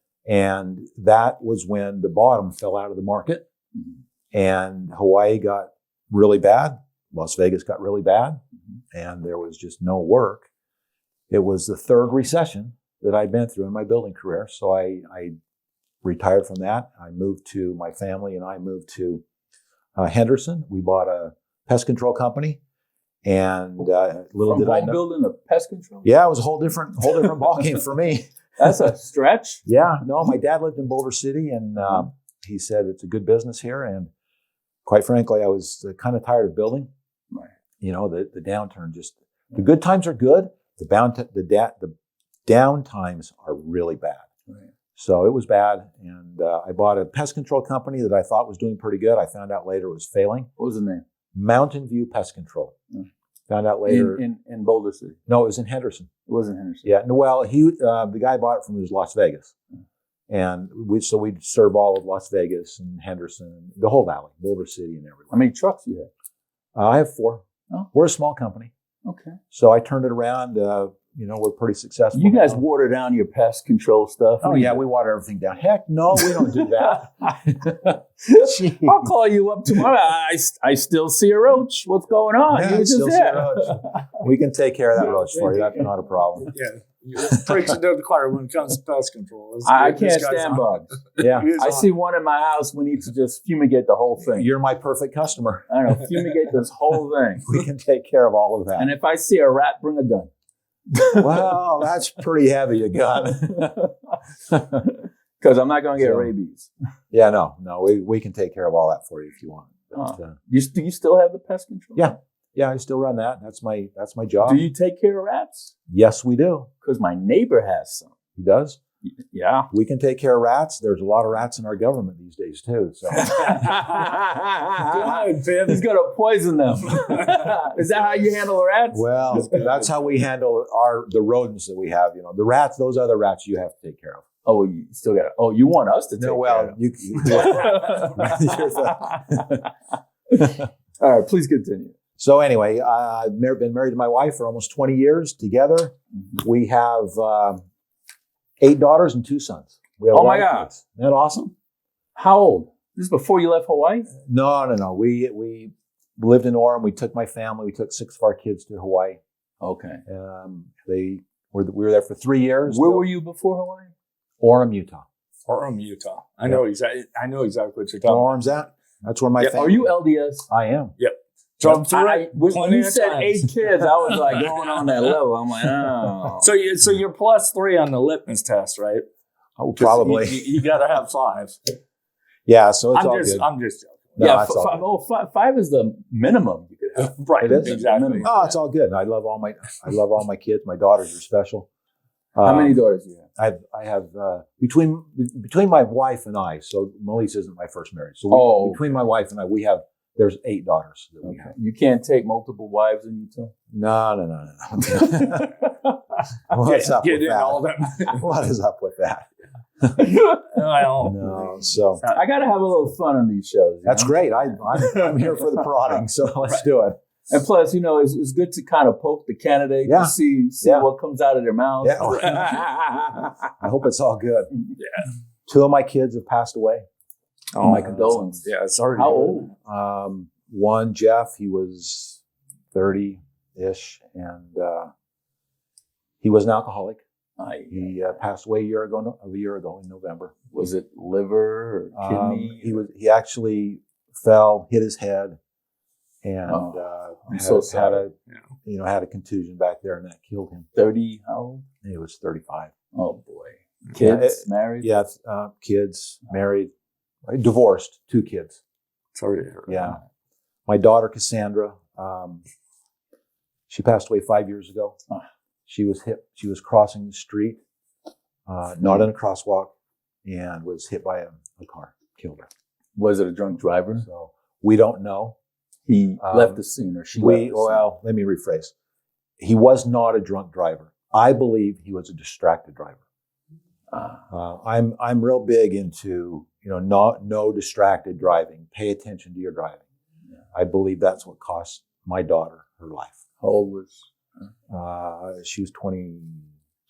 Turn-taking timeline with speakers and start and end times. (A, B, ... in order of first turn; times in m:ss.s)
0:00.2-0:03.4 A
0:04.3-0:08.4 A
0:08.9-0:10.5 A
0:11.3-0:15.3 A
0:16.0-0:19.2 A
0:20.0-0:22.6 A
0:23.2-0:25.0 A
0:24.5-0:26.1 B
0:26.0-0:28.3 A
0:28.6-0:29.6 B
0:29.6-0:34.1 A
0:34.8-0:36.9 A
0:37.8-0:41.9 A
0:42.4-0:44.2 A
0:45.0-0:50.5 A
0:50.6-0:51.0 B
0:51.3-0:52.7 A
0:53.5-0:54.2 A
0:53.8-0:55.2 B
0:55.3-0:56.1 A
0:56.3-0:56.9 B
0:56.8-0:59.5 A
1:00.3-1:05.4 A
1:05.3-1:06.1 B
1:06.7-1:08.7 A
1:09.0-1:09.4 B
1:09.5-1:12.6 A
1:12.1-1:14.8 B
1:14.4-1:17.8 A
1:16.2-1:16.9 B
1:18.2-1:24.0 B
1:18.4-1:19.1 A
1:22.5-1:26.5 A
1:25.0-1:25.6 C
1:26.4-1:31.9 C
1:29.6-1:34.5 B
1:31.2-1:31.5 A
1:34.3-1:35.7 A
1:35.7-1:37.5 B
1:37.4-1:38.9 A
1:38.8-1:40.3 B
1:40.9-1:41.5 B
1:41.1-1:43.8 A
1:43.6-1:43.9 B
1:44.7-1:46.7 B
1:46.0-1:46.3 A
1:47.1-1:50.4 A
1:49.9-1:52.1 B
1:52.0-1:54.6 A
1:54.4-1:55.7 B
1:55.9-1:56.7 A
1:56.8-1:58.1 B
1:58.4-1:58.8 A
1:59.2-1:59.7 B
1:59.7-2:03.7 A
2:03.1-2:09.7 B
2:04.9-2:05.8 C
2:08.9-2:14.2 A
2:09.3-2:09.9 C
2:14.4-2:19.7 B
2:16.2-2:19.6 A
2:20.3-2:21.9 B
2:22.2-2:27.6 A
2:28.6-2:31.5 A
2:30.1-2:30.7 B
2:32.2-2:34.1 B
2:34.2-2:39.2 A
2:39.6-2:40.0 B
2:40.1-2:43.1 A
2:42.6-2:43.9 B
2:44.4-2:45.0 A
2:45.4-2:48.3 C
2:48.0-2:49.9 A
2:49.4-2:50.5 B
2:50.5-2:50.9 A
2:51.0-2:55.0 C
2:51.6-2:56.5 B
2:56.4-2:59.0 C
2:59.6-3:00.6 A
2:59.8-3:01.6 C
3:02.5-3:03.5 A
3:02.9-3:04.4 C
3:04.2-3:04.8 A
3:04.2-3:08.6 B
3:07.0-3:08.3 C
3:07.4-3:11.7 A
3:12.3-3:12.8 A
3:12.4-3:13.2 B
3:13.4-3:21.5 A
3:18.3-3:18.9 B
3:21.2-3:23.5 B
3:23.7-3:25.7 A
3:26.5-3:29.3 A
3:26.5-3:28.3 C
3:30.0-3:30.4 B
3:30.3-3:32.2 C
3:31.0-3:32.0 A
3:32.1-3:34.6 B
3:33.8-3:37.0 A
3:37.3-3:43.4 B
3:39.8-3:40.9 A
3:41.8-3:42.6 A
3:42.0-3:42.5 C
3:43.6-3:44.5 A
3:44.8-3:45.1 C
3:45.5-3:46.8 A
3:47.5-3:49.5 C
3:47.6-3:49.5 B
3:47.7-3:48.2 A
3:49.6-3:52.2 A
3:52.7-3:54.9 A
3:56.2-3:57.0 A
3:57.4-3:58.2 B
3:57.7-4:00.3 A
4:00.5-4:02.8 B
4:02.0-4:05.4 A
4:06.2-4:10.7 A
4:06.5-4:08.0 B
4:10.7-4:11.6 B
4:11.8-4:12.7 A
4:12.9-4:14.9 B
4:14.0-4:16.7 A
4:17.2-4:18.6 A
4:19.1-4:20.0 C
4:19.7-4:20.0 A
4:20.7-4:22.4 A
4:23.7-4:25.0 A
4:25.6-4:27.6 A
4:28.5-4:29.7 A
4:30.2-4:32.5 A
4:33.0-4:34.0 B
4:34.0-4:35.3 A
4:35.8-4:37.8 B
4:36.2-4:36.6 A
4:37.1-4:38.7 A
4:39.4-4:43.0 A
4:43.9-4:44.2 B
4:44.3-4:49.8 A
4:50.5-4:53.2 A
4:53.4-4:54.1 B
4:54.7-4:56.4 A